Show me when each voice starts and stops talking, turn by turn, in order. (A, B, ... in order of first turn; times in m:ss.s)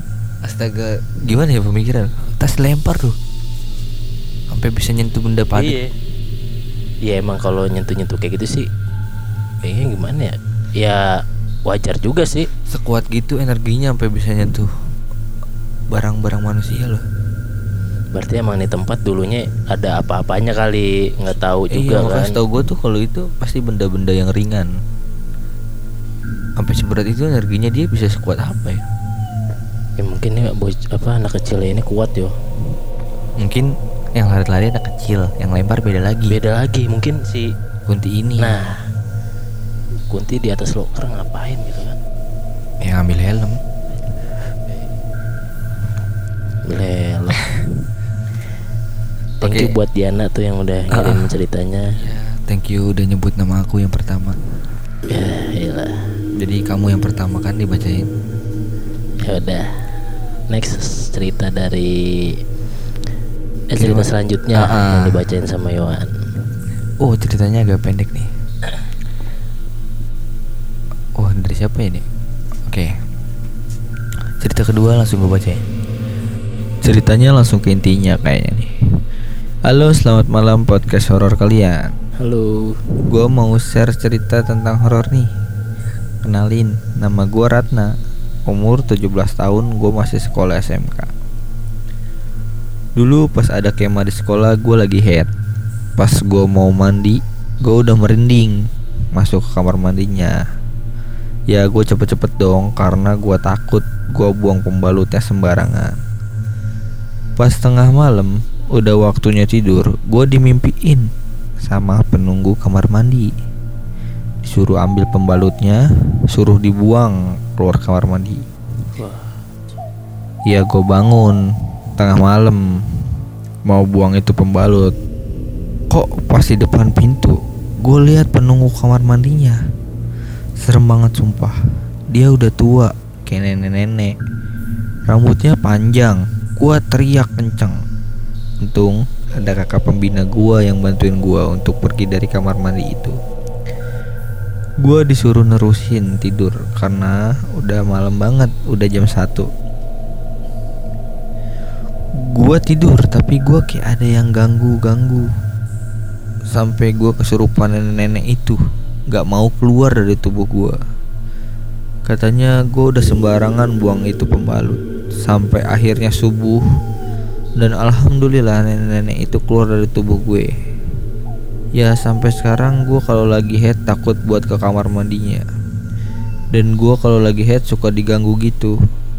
0:00.4-0:03.2 A
0:04.5-0:05.8 A
0:05.6-0:05.9 B
0:07.0-0:08.7 B
0:09.6-0:12.5 B
0:12.7-0:14.7 A
0:15.9-0:17.0 A
0:18.1-0:22.4 B
0:21.7-0:24.7 A
0:26.6-0:28.9 A
0:30.0-0:32.3 B
0:33.4-0:36.4 A
0:36.3-0:37.5 B
0:37.9-0:38.6 A
0:38.4-0:38.8 B
0:40.1-0:42.0 B
0:42.8-0:43.6 A
0:46.7-0:47.7 B
0:49.4-0:49.7 A
0:49.4-0:52.0 B
0:50.9-0:51.3 A
0:52.0-0:54.4 A
0:55.1-0:56.0 B
0:56.4-0:58.1 A
0:59.2-0:59.7 B
1:00.5-1:02.4 B
1:03.7-1:06.1 B
1:03.8-1:05.2 A
1:07.0-1:08.3 A
1:11.2-1:12.0 A
1:12.7-1:12.9 A
1:14.4-1:15.6 A
1:16.8-1:18.7 A
1:19.7-1:21.9 A
1:22.2-1:22.8 B
1:23.1-1:25.3 A
1:26.2-1:27.9 A
1:28.5-1:31.1 A
1:33.0-1:35.3 A
1:36.0-1:38.6 A
1:39.1-1:40.4 A
1:41.5-1:45.9 A
1:47.4-1:51.1 A
1:51.6-1:53.3 A
1:54.4-1:58.4 A
1:58.9-1:59.4 B
2:00.5-2:01.4 A
2:02.0-2:02.6 A
2:03.7-2:04.9 A
2:05.9-2:09.6 A
2:10.6-2:11.6 A
2:12.1-2:14.2 A
2:15.1-2:17.8 A
2:18.6-2:23.2 A
2:24.8-2:29.5 A
2:32.3-2:35.3 A
2:36.5-2:40.8 A
2:42.1-2:46.6 A
2:47.6-2:50.5 A
2:51.8-2:55.4 A
2:56.5-2:58.8 A